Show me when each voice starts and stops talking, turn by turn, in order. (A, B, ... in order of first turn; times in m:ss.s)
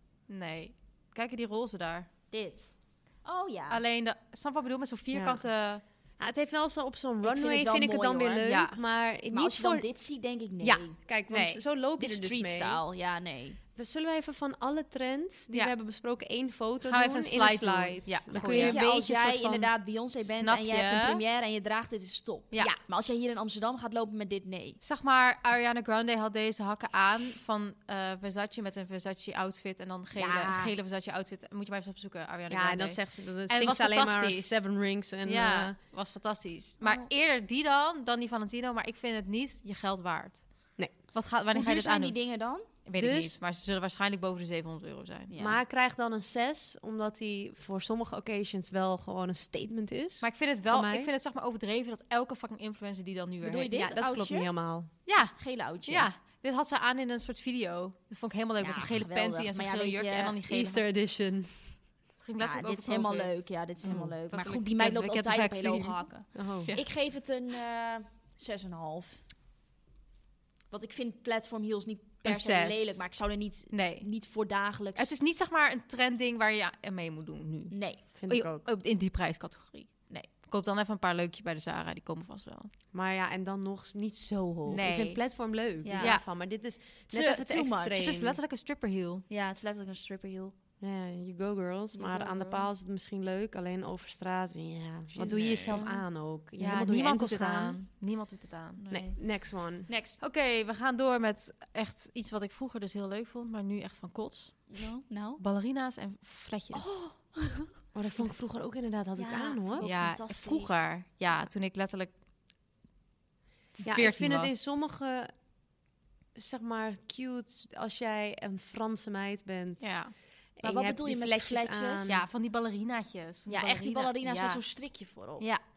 0:00.3-0:02.1 A
0:02.3-0:03.8 B
0:03.7-0:05.8 A
0:05.1-0:05.5 C
0:06.2-0:09.9 C
0:07.2-0:08.4 B
0:08.4-0:08.8 A
0:09.3-0:11.0 B
0:10.6-0:12.8 C
0:11.3-0:11.6 A
0:12.0-0:13.6 B
0:13.8-0:19.7 C
0:16.8-0:18.8 A
0:18.4-0:24.8 B
0:20.2-0:21.2 A
0:24.8-0:45.3 A
0:30.2-0:30.7 B
0:32.5-0:35.8 C
0:36.8-0:37.1 B
0:41.5-0:42.7 B
0:43.0-0:43.4 C
0:45.3-0:45.6 B
0:45.4-0:51.1 C
0:50.2-0:53.7 A
0:53.4-0:54.5 B
0:53.7-0:54.9 C
0:55.0-1:00.8 A
0:55.2-0:56.1 B
0:58.6-1:00.4 B
1:00.5-1:01.8 C
1:02.2-1:06.8 A
1:02.4-1:09.2 B
1:03.8-1:04.2 C
1:06.3-1:06.7 C
1:10.7-1:15.1 B
1:12.2-1:13.1 A
1:13.7-1:14.1 A
1:14.9-1:22.7 A
1:17.7-1:18.0 B
1:18.2-1:18.7 C
1:22.9-1:28.4 C
1:24.3-1:24.8 B
1:24.7-1:26.2 A
1:25.8-1:26.2 B
1:27.1-1:28.1 B
1:28.0-1:29.2 A
1:29.3-1:30.5 B
1:30.8-1:37.8 C
1:31.9-1:32.7 B
1:35.1-1:35.8 B
1:35.2-1:38.9 A
1:38.8-1:39.2 B
1:38.9-1:39.9 C
1:39.9-1:40.2 B
1:40.2-1:44.8 A
1:44.7-1:45.4 B
1:45.4-1:47.3 A
1:46.7-1:47.7 B
1:47.9-1:49.9 C
1:49.2-1:50.9 B
1:49.8-1:52.1 A
1:53.8-1:54.5 A
1:53.8-1:55.3 C
1:56.3-2:02.2 C
1:59.8-2:00.1 A
2:00.6-2:02.2 B
2:02.1-2:04.6 A
2:03.5-2:05.5 B